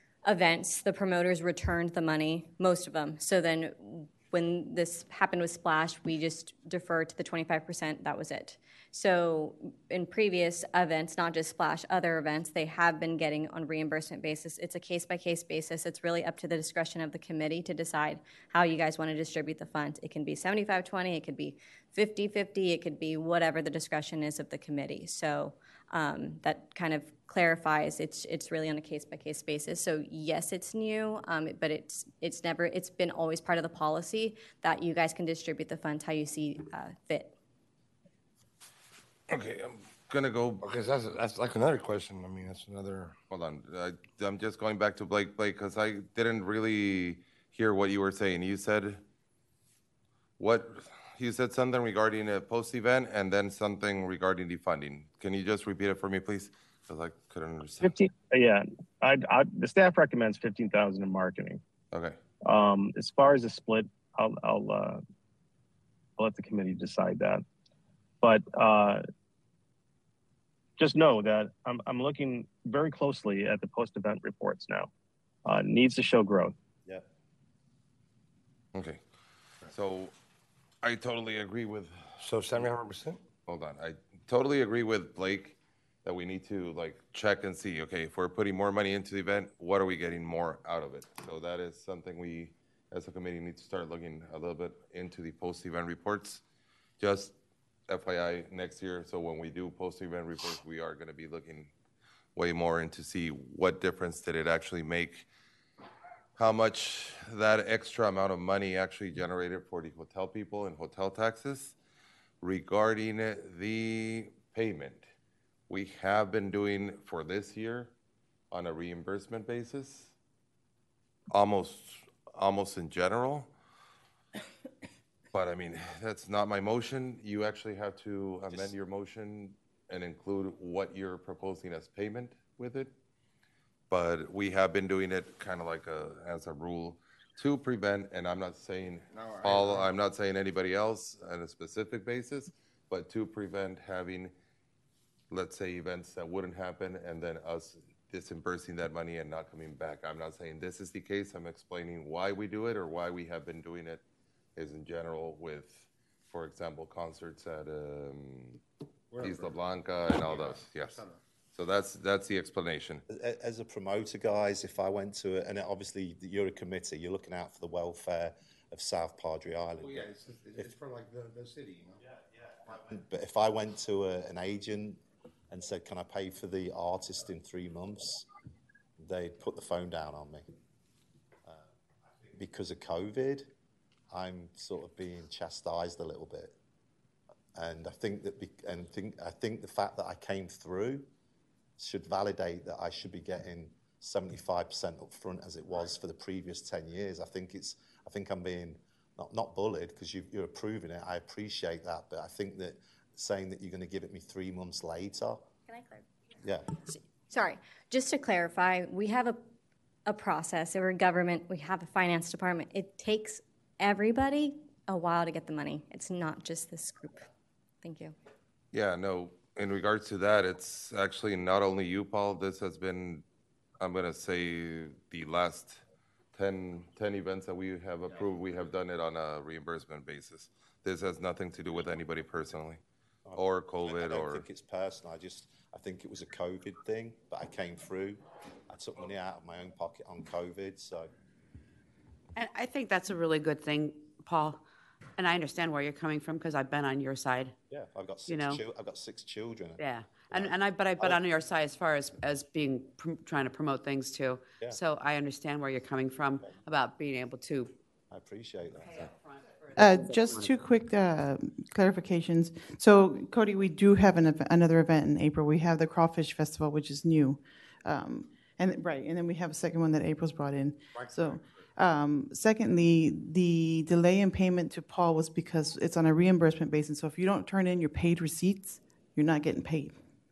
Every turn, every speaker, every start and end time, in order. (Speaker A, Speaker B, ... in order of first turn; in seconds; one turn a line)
Speaker A: 0.2-37.3
Speaker B: 39.3-40.6
Speaker C: 40.6-43.2
Speaker B: 43.3-49.0
Speaker B: 50.4-57.9
Speaker D: 57.8-61.6
Speaker B: 61.9-62.2
Speaker D: 62.4-65.0
Speaker D: 66.2-67.4
Speaker D: 68.2-69.0
Speaker D: 70.8-74.9
Speaker D: 75.5-76.5
Speaker B: 78.7-79.0
Speaker B: 79.7-80.1
Speaker B: 80.8-82.6
Speaker C: 82.2-83.2
Speaker B: 83.5-96.4
Speaker B: 97.0-97.3
Speaker B: 97.9-101.7
Speaker B: 102.3-105.3
Speaker B: 106.4-111.8
Speaker B: 112.4-115.1
Speaker B: 115.7-117.9
Speaker B: 118.5-120.1
Speaker B: 121.3-123.5
Speaker B: 125.3-132.9
Speaker B: 133.9-144.3
Speaker C: 139.1-139.9
Speaker B: 145.3-154.0
Speaker B: 154.6-158.6
Speaker C: 159.1-159.6
Speaker B: 159.2-161.0
Speaker C: 160.1-161.2
Speaker B: 161.6-163.0
Speaker E: 163.1-170.1
Speaker C: 169.8-172.0
Speaker E: 172.0-178.3
Speaker E: 179.0-180.5
Speaker E: 182.3-183.5
Speaker E: 184.1-186.6
Speaker E: 187.6-191.1
Speaker E: 191.8-205.4
Speaker A: 205.7-206.0
Speaker E: 206.4-206.7
Speaker A: 206.9-209.4
Speaker A: 210.1-217.3
Speaker A: 217.8-218.2
Speaker B: 218.7-223.2
Speaker B: 223.8-232.8
Speaker E: 233.3-241.1
Speaker B: 233.4-234.4
Speaker F: 242.4-244.6
Speaker F: 245.2-247.6
Speaker E: 247.7-251.2
Speaker F: 248.3-248.6
Speaker F: 249.8-257.8
Speaker E: 258.1-259.1
Speaker F: 258.8-260.6
Speaker G: 259.8-280.0
Speaker C: 270.9-271.4